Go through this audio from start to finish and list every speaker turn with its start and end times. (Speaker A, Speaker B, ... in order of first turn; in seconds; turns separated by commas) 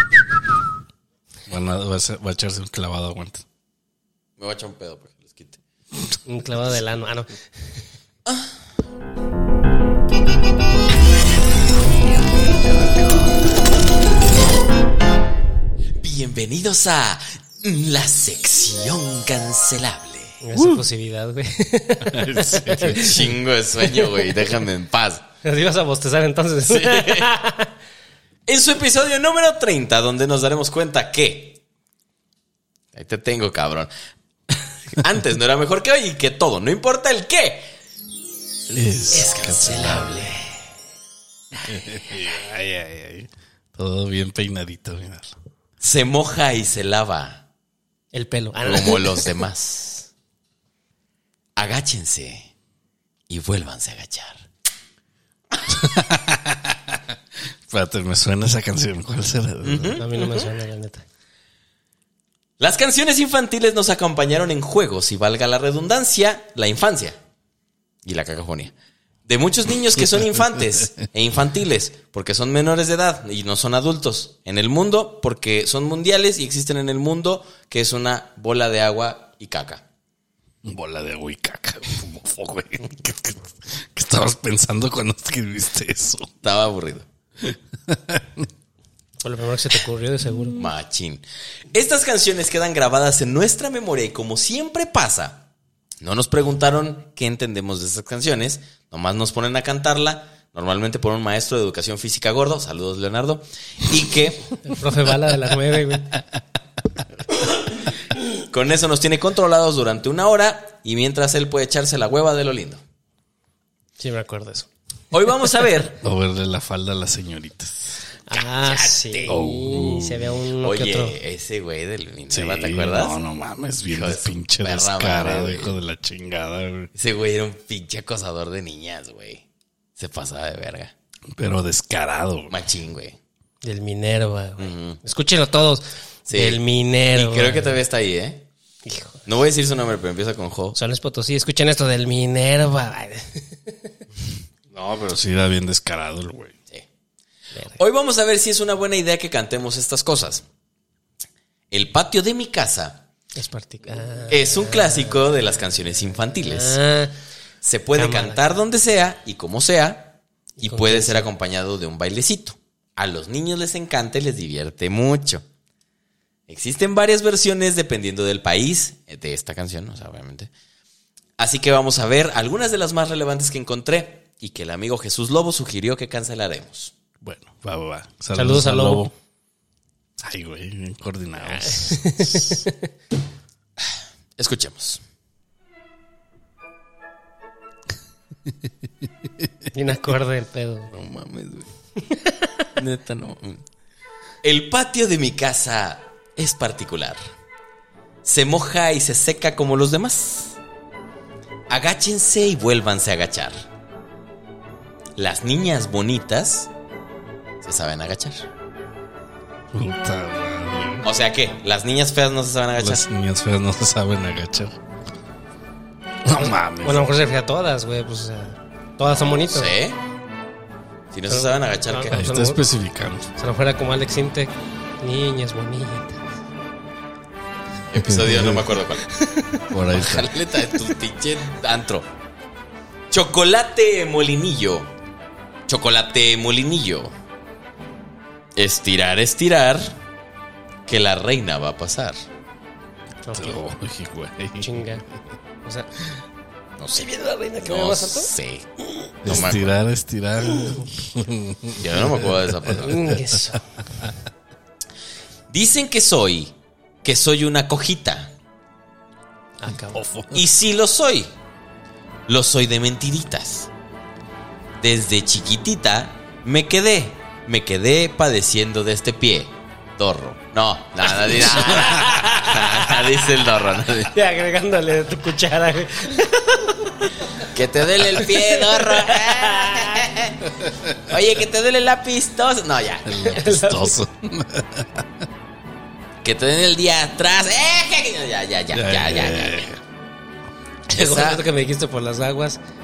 Speaker A: 1.5-3.4, Speaker B: 4.4-5.6, Speaker C: 6.2-7.3, Speaker B: 8.2-8.5, Speaker B: 16.0-20.4, Speaker C: 20.4-23.3, Speaker A: 20.5-20.8, Speaker A: 22.0-23.3, Speaker B: 22.9-25.2, Speaker C: 24.0-24.5, Speaker C: 25.4-27.7, Speaker B: 26.6-27.3, Speaker B: 28.4-31.6, Speaker B: 32.9-33.9, Speaker B: 34.9-37.7, Speaker A: 38.7-40.2, Speaker B: 39.1-40.5, Speaker A: 41.6-45.4, Speaker B: 45.8-47.4, Speaker C: 48.1-49.4, Speaker B: 48.6-50.0, Speaker B: 51.5-52.5, Speaker B: 53.3-54.4, Speaker A: 55.7-57.1, Speaker A: 57.7-60.0, Speaker B: 59.6-60.5, Speaker C: 60.0-61.0, Speaker B: 62.6-67.2, Speaker B: 68.0-68.7, Speaker B: 69.3-79.8, Speaker A: 70.2-70.9, Speaker A: 80.6-86.3, Speaker B: 86.4-87.0, Speaker A: 87.4-88.5, Speaker C: 89.2-90.6, Speaker B: 90.6-95.5, Speaker B: 96.0-104.7, Speaker C: 104.6-106.2, Speaker B: 108.2-112.8, Speaker C: 114.0-114.7, Speaker B: 115.1-116.0, Speaker A: 116.0-118.0, Speaker C: 118.2-121.2, Speaker B: 118.6-119.4, Speaker A: 119.3-120.3, Speaker B: 120.6-123.2, Speaker A: 122.3-126.9, Speaker B: 123.9-125.8, Speaker B: 126.9-129.4, Speaker B: 130.0-130.9, Speaker A: 131.3-132.5, Speaker B: 132.5-133.2, Speaker C: 133.6-137.8, Speaker B: 134.6-135.0, Speaker B: 136.3-136.6, Speaker B: 137.1-138.4, Speaker C: 138.8-139.2, Speaker B: 139.2-140.8, Speaker C: 140.7-143.9, Speaker A: 144.7-146.5, Speaker B: 147.8-150.4, Speaker B: 151.7-153.1, Speaker C: 153.3-155.2, Speaker B: 154.3-156.8, Speaker C: 156.4-157.1, Speaker B: 157.6-165.4, Speaker C: 157.9-158.5, Speaker C: 160.6-161.3, Speaker B: 166.5-170.5, Speaker B: 171.4-176.9, Speaker A: 177.2-179.1, Speaker C: 178.3-179.1, Speaker A: 180.2-182.6, Speaker C: 181.4-182.9, Speaker B: 184.4-185.0, Speaker C: 189.7-190.9, Speaker B: 190.9-191.7, Speaker C: 192.0-192.5, Speaker B: 192.8-193.6, Speaker B: 194.4-197.2, Speaker B: 198.2-200.6, Speaker B: 201.7-203.6, Speaker B: 205.2-206.7, Speaker B: 207.6-208.4, Speaker A: 209.7-211.1, Speaker B: 211.0-213.1, Speaker A: 212.8-214.8, Speaker A: 216.2-217.1, Speaker C: 216.3-219.7, Speaker B: 219.5-220.0, Speaker B: 221.1-222.2, Speaker C: 221.3-222.6, Speaker A: 222.1-223.3, Speaker C: 223.4-226.2, Speaker B: 227.9-229.1, Speaker A: 227.9-228.7, Speaker C: 229.1-229.6, Speaker A: 229.7-230.3, Speaker B: 229.9-232.1, Speaker B: 233.1-234.9, Speaker B: 235.7-237.1, Speaker B: 238.6-240.0, Speaker B: 240.9-242.2, Speaker C: 243.2-243.7, Speaker A: 243.3-244.8, Speaker C: 244.6-245.1, Speaker C: 245.6-245.9, Speaker B: 246.8-247.1, Speaker C: 246.9-248.3, Speaker B: 247.6-248.7, Speaker B: 249.2-249.7, Speaker A: 249.2-254.1, Speaker C: 250.5-250.9, Speaker B: 251.8-253.1, Speaker C: 252.8-253.7, Speaker B: 255.5-256.5, Speaker B: 257.0-258.3, Speaker C: 259.6-260.0, Speaker A: 259.9-260.4, Speaker B: 260.3-261.3, Speaker B: 262.3-263.7, Speaker B: 264.8-274.1, Speaker C: 271.4-272.9, Speaker C: 274.0-277.4, Speaker B: 277.4-280.5, Speaker C: 278.0-280.1, Speaker A: 280.6-280.9, Speaker B: 281.0-283.1, Speaker A: 283.1-285.2, Speaker C: 283.2-284.0, Speaker B: 286.2-289.7, Speaker A: 288.7-289.8, Speaker B: 290.9-291.4, Speaker C: 290.9-292.6